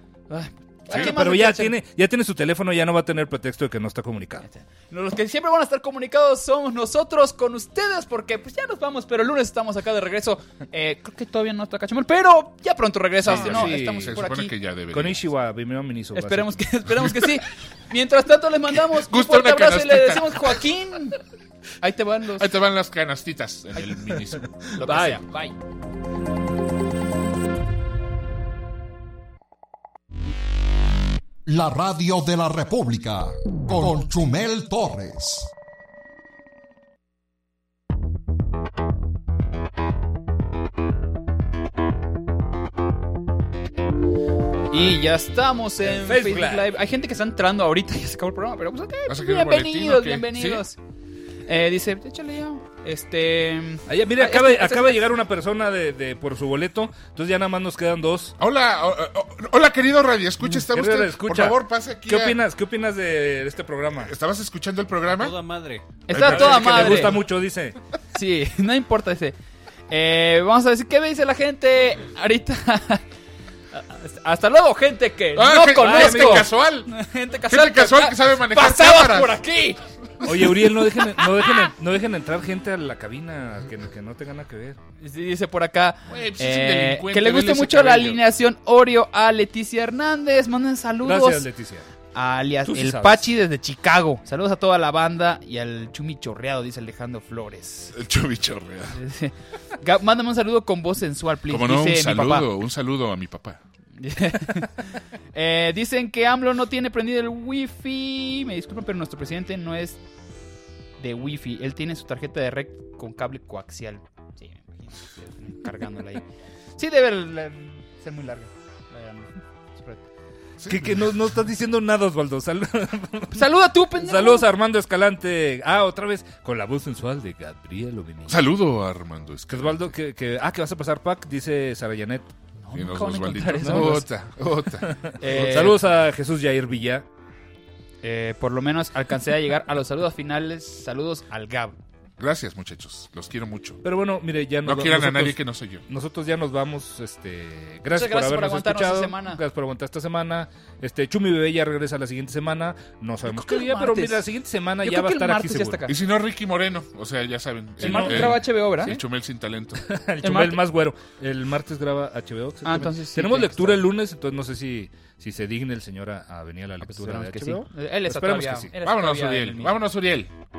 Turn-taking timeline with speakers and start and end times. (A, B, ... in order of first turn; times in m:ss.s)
0:00.3-0:01.8 A
0:00.9-0:04.5 B
0:04.5-0:14.5 A
0:13.2-0:15.2 C
0:13.3-0:14.2 B
0:14.9-0:16.6 B
0:16.2-0:21.2 A
0:16.9-0:17.2 C
0:18.9-0:20.6 C
0:21.8-0:22.5 A
0:22.4-0:24.6 C
0:24.7-0:25.2 B
0:24.8-0:25.6 A
0:31.5-0:35.5 D
0:44.7-0:50.8 A
0:45.8-0:46.7 B
0:49.1-0:50.6 C
0:51.5-0:55.1 A
0:53.9-0:58.4 B
0:58.4-1:02.4 C
1:00.4-1:04.1 B
1:04.1-1:05.5 C
1:05.3-1:07.8 B
1:06.1-1:07.2 A
1:06.1-1:07.2 C
1:08.1-1:09.4 A
1:09.9-1:13.0 A
1:13.7-1:19.8 A
1:15.4-1:17.0 C
1:15.8-1:16.5 B
1:17.5-1:19.4 C
1:20.2-1:24.8 B
1:25.0-1:31.5 A
1:26.1-1:28.2 C
1:31.0-1:31.9 B
1:32.2-1:38.0 A
1:32.7-1:33.2 B
1:37.9-1:39.0 C
1:38.9-1:42.5 A
1:41.5-1:43.6 C
1:44.0-1:50.0 A
1:51.0-2:00.0 A
2:00.6-2:01.1 C
2:00.7-2:08.4 B
2:03.3-2:04.5 A
2:08.3-2:09.9 C
2:09.5-2:12.3 B
2:12.6-2:14.1 A
2:12.7-2:15.4 C
2:13.6-2:14.0 B
2:14.9-2:17.1 B
2:15.2-2:15.8 A
2:18.0-2:21.8 A
2:22.2-2:23.8 C
2:23.8-2:35.9 B
2:24.6-2:25.8 C
2:27.9-2:29.4 A
2:33.2-2:34.3 A
2:34.8-2:36.0 A
2:35.9-2:40.0 C
2:37.8-2:39.0 A
2:37.8-2:38.4 B
2:39.8-2:48.7 B
2:40.2-2:40.6 A
2:42.6-2:43.8 A
2:46.8-2:49.7 A
2:48.8-2:50.3 C